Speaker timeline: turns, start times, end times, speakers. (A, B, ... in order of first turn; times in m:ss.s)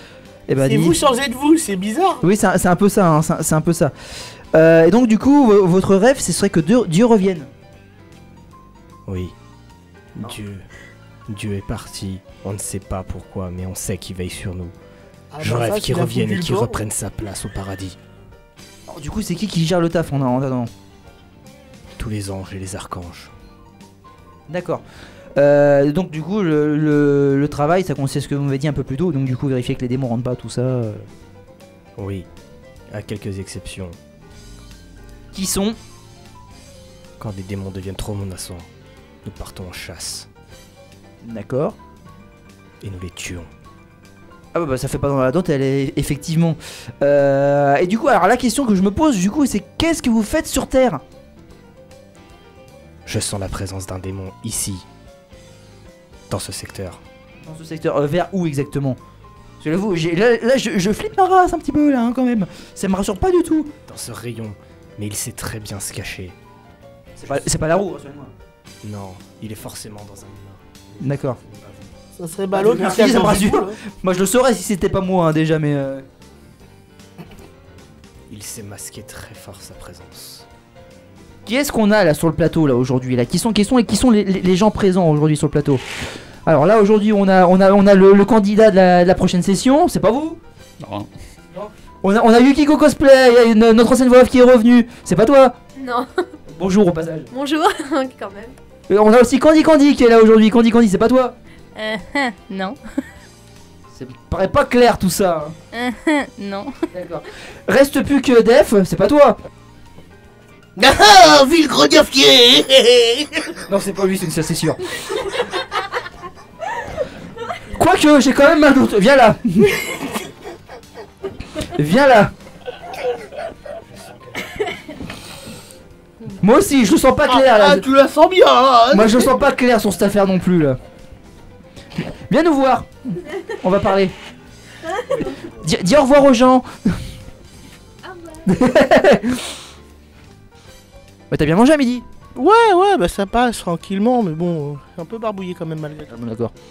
0:00.5-0:01.0 A
0:00.6-0:02.2 B
0:02.2-0:03.9 A
0:04.5-0:07.5 A
0:09.1-0:09.3 C
0:10.1-0:10.7 C
0:11.3-0:14.7 C
0:15.3-0:16.8 B
0:15.4-0:18.0 C
0:18.9-0:20.7 A
0:22.0-0:23.3 C
0:24.5-0:24.8 A
0:25.4-0:31.1 A
0:32.0-0:32.3 C
0:32.9-0:34.0 C
0:35.3-0:35.8 A
0:37.2-0:38.7 C
0:39.2-0:40.3 C
0:41.2-0:41.8 A
0:42.8-0:43.5 C
0:44.5-0:51.0 A
0:53.0-0:54.8 C
0:56.3-0:57.0 C
0:57.4-0:59.0 A
0:59.6-1:03.7 A
1:03.8-1:06.4 C
1:07.2-1:08.3 A
1:08.8-1:11.9 C
1:11.0-1:11.4 A
1:12.2-1:13.8 B
1:12.5-1:16.0 A
1:18.3-1:20.5 C
1:21.4-1:25.8 A
1:26.4-1:30.4 A
1:31.5-1:35.5 A
1:35.8-1:36.1 D
1:36.5-1:37.3 A
1:37.3-1:38.6 D
1:38.9-1:41.3 A
1:41.7-1:42.8 D
1:43.9-1:45.5 A
1:45.7-1:46.8 D
1:46.9-1:49.4 A
1:50.8-1:53.5 B
1:53.6-1:55.3 A
1:57.5-1:59.8 A
2:01.6-2:02.3 A
2:03.7-2:04.7 C
2:06.3-2:07.9 A
2:07.3-2:09.3 B
2:08.9-2:10.8 A
2:12.3-2:14.1 A
2:15.1-2:17.0 A
2:18.4-2:19.5 A
2:21.3-2:22.0 A
2:22.3-2:26.1 B
2:26.1-2:26.5 A